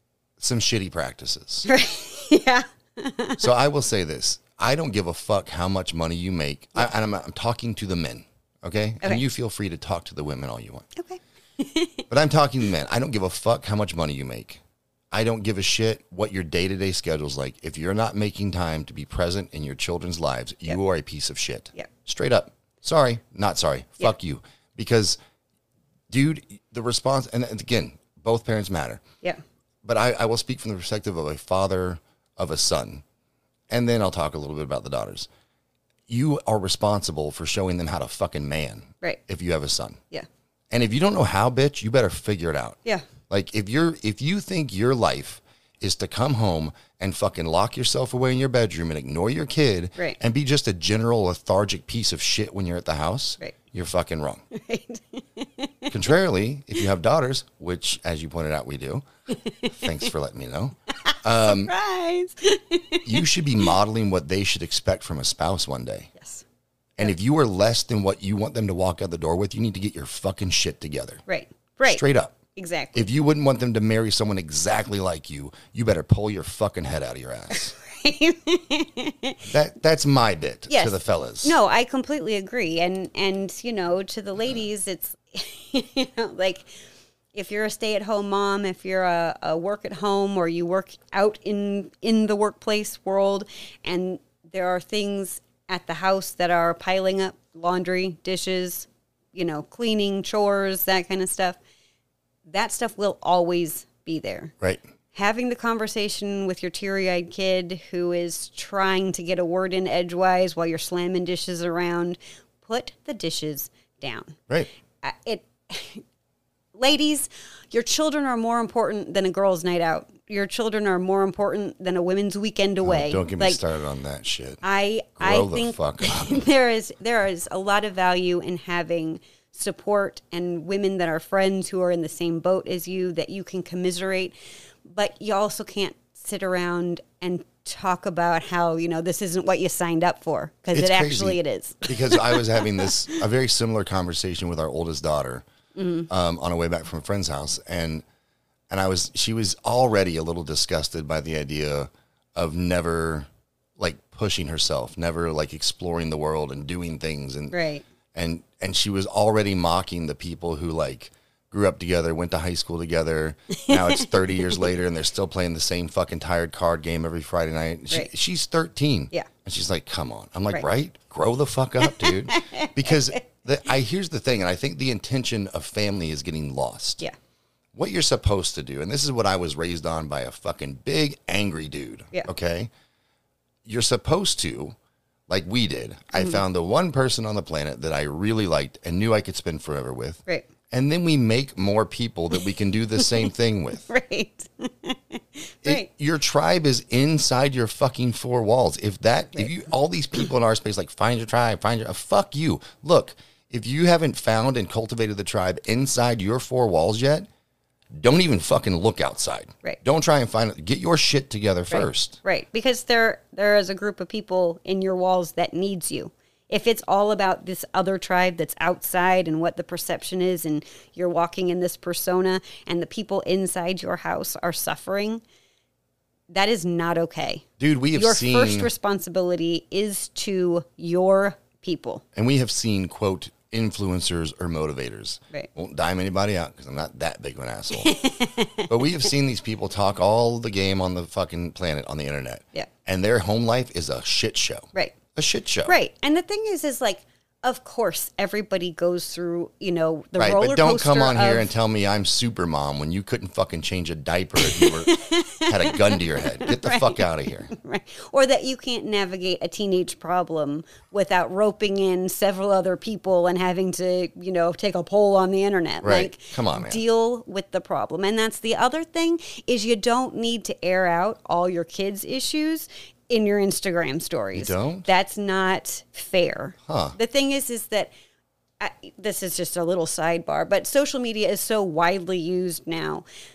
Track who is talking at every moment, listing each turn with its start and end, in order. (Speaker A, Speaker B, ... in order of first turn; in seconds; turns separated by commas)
Speaker A: 0.4-1.7, Speaker B: 1.7-3.5, Speaker A: 3.4-10.9, Speaker B: 11.0-12.1, Speaker A: 12.1-14.6, Speaker A: 15.1-25.2, Speaker A: 26.1-29.0, Speaker A: 29.8-33.0, Speaker A: 33.7-35.3, Speaker A: 36.1-40.0, Speaker A: 40.7-54.5, Speaker B: 54.5-55.9, Speaker A: 55.9-59.1, Speaker A: 59.6-61.7, Speaker B: 61.1-63.3, Speaker A: 63.0-66.1, Speaker B: 66.2-66.4, Speaker A: 67.0-71.2, Speaker B: 71.3-72.0, Speaker A: 71.9-72.4, Speaker B: 72.5-73.1, Speaker A: 73.0-77.8, Speaker B: 77.5-79.4, Speaker A: 79.4-81.5, Speaker B: 80.7-86.7, Speaker B: 87.3-101.6, Speaker B: 102.5-104.5, Speaker B: 105.1-114.4, Speaker B: 115.0-116.0, Speaker B: 116.8-123.6, Speaker A: 122.8-124.6, Speaker B: 124.6-143.2, Speaker A: 125.2-126.4, Speaker A: 140.7-145.4, Speaker B: 145.8-146.1, Speaker A: 146.1-148.0, Speaker A: 148.7-157.6, Speaker B: 157.5-157.8, Speaker A: 158.1-177.0, Speaker B: 163.7-164.6, Speaker B: 171.8-173.0, Speaker A: 177.7-182.7, Speaker A: 183.7-184.8, Speaker A: 185.3-193.9, Speaker B: 193.9-195.9, Speaker A: 195.6-207.3, Speaker A: 207.9-212.2, Speaker B: 211.7-225.2, Speaker B: 226.3-232.0, Speaker A: 227.6-228.7, Speaker A: 232.2-238.0, Speaker B: 237.8-238.7, Speaker A: 238.7-245.8, Speaker B: 245.7-251.5, Speaker A: 250.2-257.5, Speaker B: 254.4-277.9, Speaker A: 265.8-266.8, Speaker A: 274.4-274.9, Speaker A: 276.7-277.0, Speaker B: 278.6-283.1